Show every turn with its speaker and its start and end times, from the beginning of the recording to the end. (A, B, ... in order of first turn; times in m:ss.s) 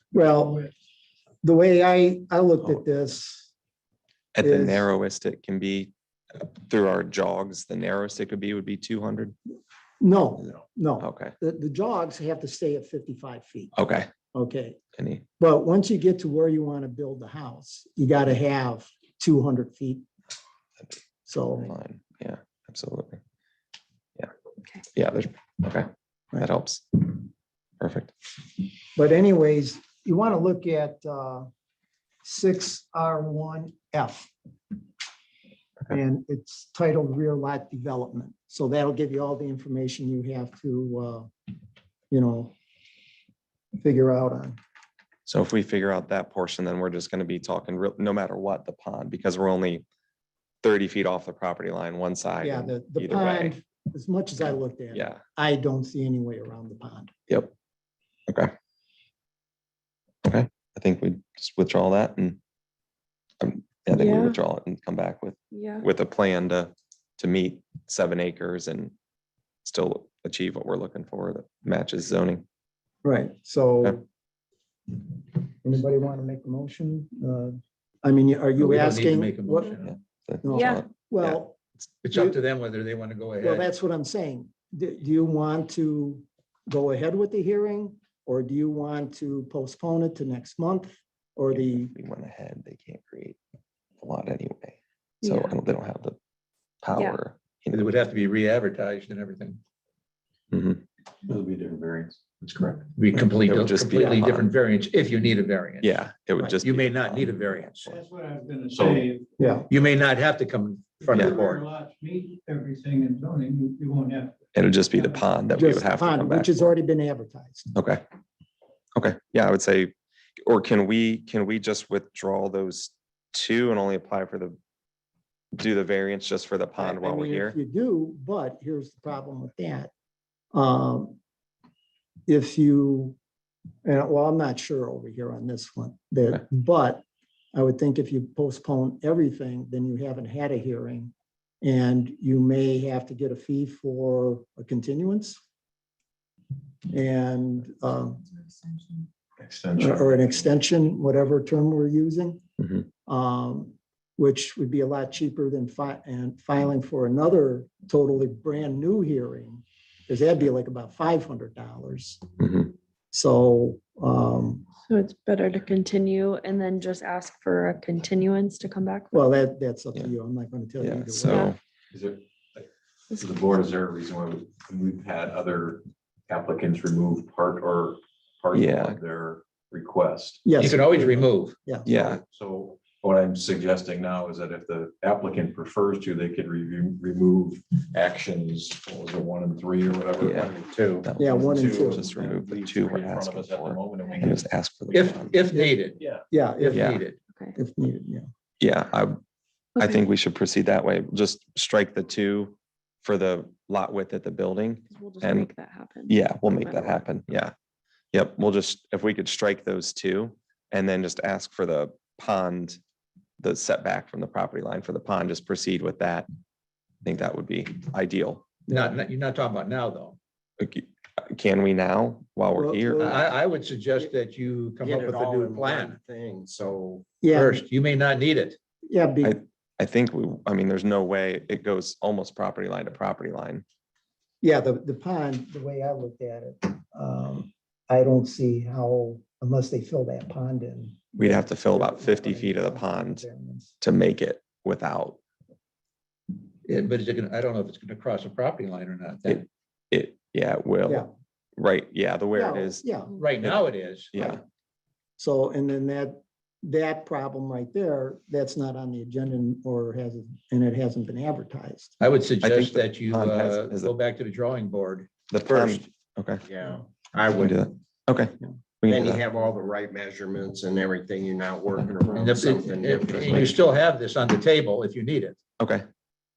0:00.1-0:00.7 A
0:01.4-0:03.5 A
0:04.4-0:09.3 B
0:04.4-0:04.9 A
0:10.0-0:13.7 A
0:11.0-0:11.3 B
0:13.7-0:14.1 B
0:14.3-0:14.8 A
0:15.0-0:15.2 B
0:15.4-0:20.0 A
0:21.3-0:21.7 A
0:21.6-0:23.2 B
0:24.9-0:27.2 B
0:27.8-0:28.1 B
0:28.9-0:31.5 A
0:32.2-0:34.3 A
0:35.9-0:41.3 A
0:42.1-0:42.5 A
0:43.8-0:44.6 A
0:45.2-0:49.8 B
0:50.6-0:53.5 B
0:52.4-0:57.1 A
0:54.9-0:55.2 B
1:00.2-1:02.4 B
1:03.4-1:08.9 B
1:03.9-1:04.4 C
1:05.5-1:05.9 C
1:09.6-1:12.4 B
1:13.0-1:14.0 A
1:15.6-1:19.8 A
1:18.6-1:19.7 D
1:19.9-1:21.4 B
1:20.4-1:21.6 A
1:20.5-1:20.8 C
1:22.0-1:23.7 D
1:23.4-1:31.9 A
1:31.5-1:33.4 B
1:34.0-1:36.2 B
1:35.2-1:35.6 C
1:36.8-1:37.8 B
1:37.7-1:39.6 D
1:40.5-1:40.8 B
1:41.2-1:42.9 E
1:43.0-1:46.0 D
1:43.4-1:44.5 B
1:45.8-1:47.4 B
1:46.6-1:48.0 D
1:47.8-1:49.3 F
1:48.7-1:49.1 E
1:49.4-1:49.7 A
1:49.7-1:51.6 D
1:51.0-1:54.4 F
1:54.5-1:56.7 B
1:54.9-1:55.2 F
1:55.5-1:57.7 A
1:57.7-1:58.0 B
1:59.0-2:04.6 B
2:05.6-2:07.6 B
2:06.8-2:09.9 A
2:10.5-2:11.2 A
2:12.3-2:13.2 A
2:13.8-2:25.4 A
2:26.9-2:28.3 A
2:29.4-2:30.3 E
2:29.8-2:32.4 A
2:32.6-2:32.8 B
2:33.0-2:42.2 A
2:42.4-2:42.7 B
2:43.1-2:44.7 A
2:44.8-2:49.3 C
2:49.1-2:51.5 A
2:50.8-2:51.6 B
2:51.3-2:51.5 C
2:51.9-3:00.7 E
2:53.1-2:53.4 C
2:58.5-2:59.0 B
3:00.4-3:01.9 A
3:00.6-3:01.6 D
3:01.8-3:02.2 B
3:01.9-3:14.4 E
3:10.2-3:10.5 B
3:11.0-3:15.3 B
3:11.2-3:12.2 A
3:14.9-3:16.0 D
3:16.0-3:16.2 E
3:16.3-3:17.0 A
3:16.6-3:17.2 D
3:16.7-3:17.0 B
3:17.3-3:17.5 C
3:17.5-3:18.3 A
3:18.6-3:19.2 B
3:19.8-3:20.0 C
3:19.8-3:25.5 B
3:24.9-3:27.0 C
3:26.1-3:27.5 B
3:28.1-3:32.8 B
3:33.4-3:36.2 B
3:37.0-3:38.4 B
3:38.7-3:40.2 D
3:40.6-3:43.2 B
3:42.5-3:43.4 A
3:43.0-3:46.0 D
3:44.8-3:47.1 G
3:47.2-3:47.6 A
3:47.3-3:48.6 D
3:48.9-3:49.4 A
3:49.2-3:53.6 B
3:54.4-4:03.7 A
4:01.2-4:03.2 B
4:03.8-4:05.2 B
4:06.6-4:09.4 D
4:09.2-4:11.1 B
4:11.6-4:12.8 B
4:12.3-4:13.1 A
4:13.1-4:14.1 D
4:14.1-4:14.4 B
4:15.2-4:21.9 A
4:22.0-4:25.8 D
4:22.4-4:23.9 B
4:25.3-4:26.4 B
4:26.4-4:27.7 G
4:27.4-4:29.2 B
4:28.8-4:33.6 G
4:32.1-4:35.4 D